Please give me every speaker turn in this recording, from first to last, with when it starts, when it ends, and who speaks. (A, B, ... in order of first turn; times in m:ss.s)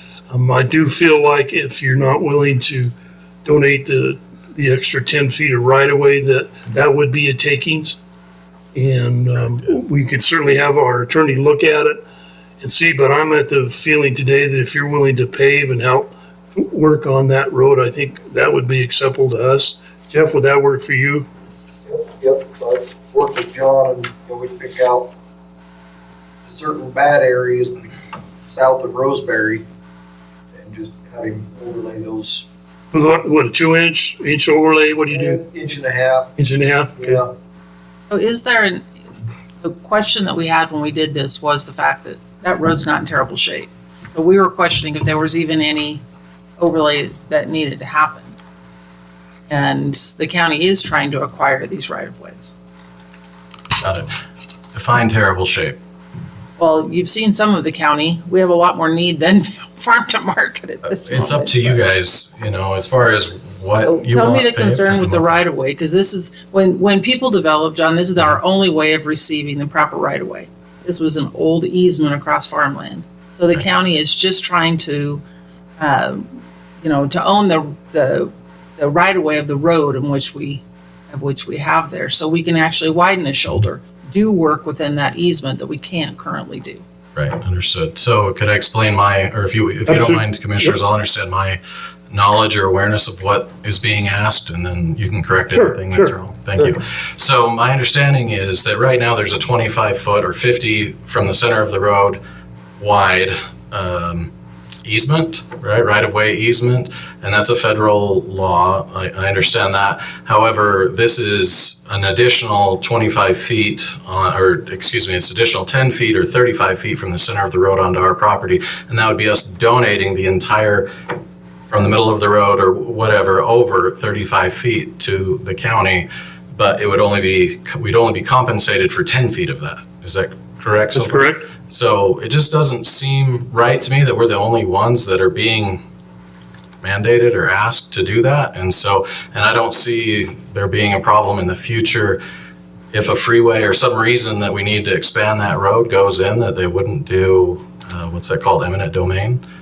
0:00.3-0:02.9 A
0:03.4-0:08.0 A
0:08.7-0:12.0 A
0:12.6-0:21.3 A
0:21.8-0:25.1 B
0:26.4-0:27.9 B
0:28.5-0:29.6 B
0:30.5-0:32.4 B
0:32.9-0:35.4 A
0:35.1-0:36.4 B
0:36.4-0:37.2 A
0:37.0-0:37.3 B
0:38.1-0:38.9 C
0:39.6-0:46.0 C
0:46.6-0:48.4 C
0:49.5-0:52.5 C
0:53.8-0:54.1 D
0:54.7-0:55.8 D
0:56.6-1:01.8 C
1:00.8-1:05.3 D
1:03.8-1:15.2 C
1:15.8-1:26.8 C
1:27.2-1:31.6 D
1:29.9-1:30.7 A
1:32.1-1:42.2 D
1:35.5-1:36.7 A
1:42.8-1:44.3 D
1:44.8-2:00.9 D
2:01.7-2:15.8 D
2:10.9-2:11.5 A
2:16.8-2:22.2 D
2:22.9-2:29.4 D